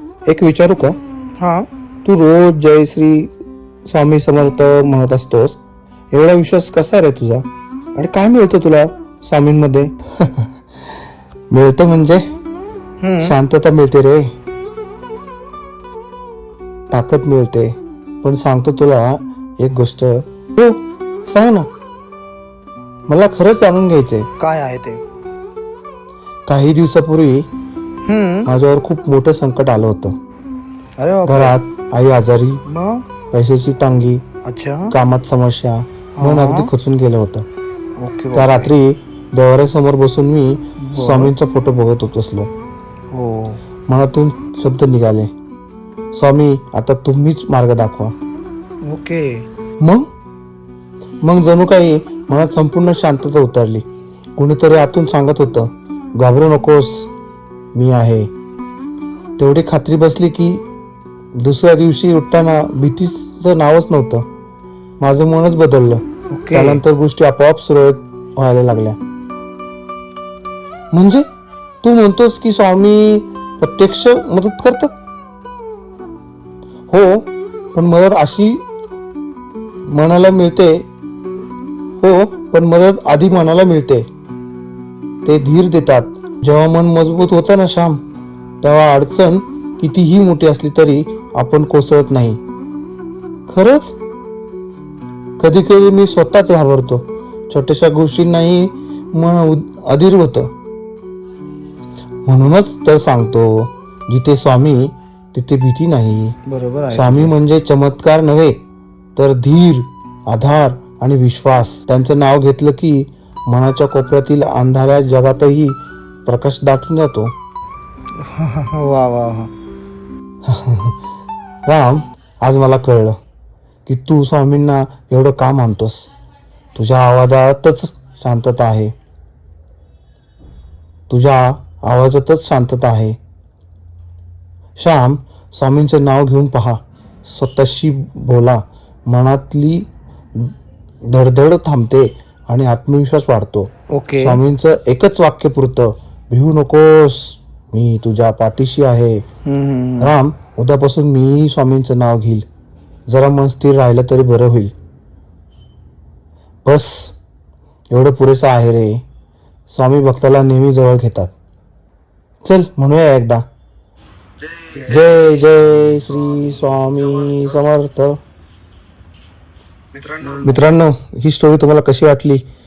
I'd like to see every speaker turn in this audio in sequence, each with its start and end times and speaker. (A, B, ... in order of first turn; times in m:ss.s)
0:00.2-0:01.0 A
0:01.4-0:01.7 B
0:02.0-0:03.3 A
0:03.8-0:05.6 A
0:06.1-0:10.5 A
0:11.5-0:12.2 A
0:13.0-0:13.3 B
0:13.2-0:14.3 A
0:16.9-0:21.7 A
0:23.1-0:24.3 A
0:24.4-0:25.0 B
0:26.5-0:27.5 A
0:28.0-0:28.5 B
0:28.4-0:30.2 A
0:31.0-0:31.6 B
0:31.3-0:32.6 A
0:32.6-0:33.0 B
0:33.3-0:34.2 A
0:34.4-0:34.9 B
0:34.9-0:37.4 A
0:36.2-0:36.7 B
0:38.0-0:38.7 B
0:38.3-0:42.5 A
0:40.8-0:41.3 B
0:43.1-0:43.6 B
0:43.9-0:45.3 A
0:46.1-0:48.1 A
0:48.8-0:49.4 B
0:49.8-0:50.1 A
0:51.2-0:53.8 A
0:54.4-0:57.1 A
0:57.7-0:58.3 A
0:59.4-1:00.6 A
1:01.4-1:04.2 A
1:05.0-1:09.0 A
1:06.3-1:06.8 B
1:10.9-1:11.2 A
1:11.8-1:14.9 A
1:16.9-1:18.6 A
1:19.9-1:20.8 A
1:22.0-1:24.1 A
1:25.2-1:28.0 A
1:28.6-1:32.4 A
1:33.5-1:34.0 A
1:35.4-1:40.5 A
1:42.3-1:46.4 A
1:46.4-1:47.3 B
1:46.9-1:48.6 A
1:49.2-1:57.3 A
1:58.2-1:59.5 B
2:00.4-2:01.0 A
2:01.6-2:03.2 A
2:03.8-2:06.1 A
2:06.7-2:08.9 A
2:11.1-2:13.2 A
2:14.8-2:29.2 A
2:23.9-2:24.4 B
2:29.4-2:30.1 B
2:30.0-2:32.4 A
2:33.1-2:34.7 A
2:36.6-2:37.1 A
2:37.9-2:39.0 A
2:39.7-2:41.3 A
2:42.4-2:43.4 A
2:44.7-2:48.2 A
2:50.4-2:52.4 A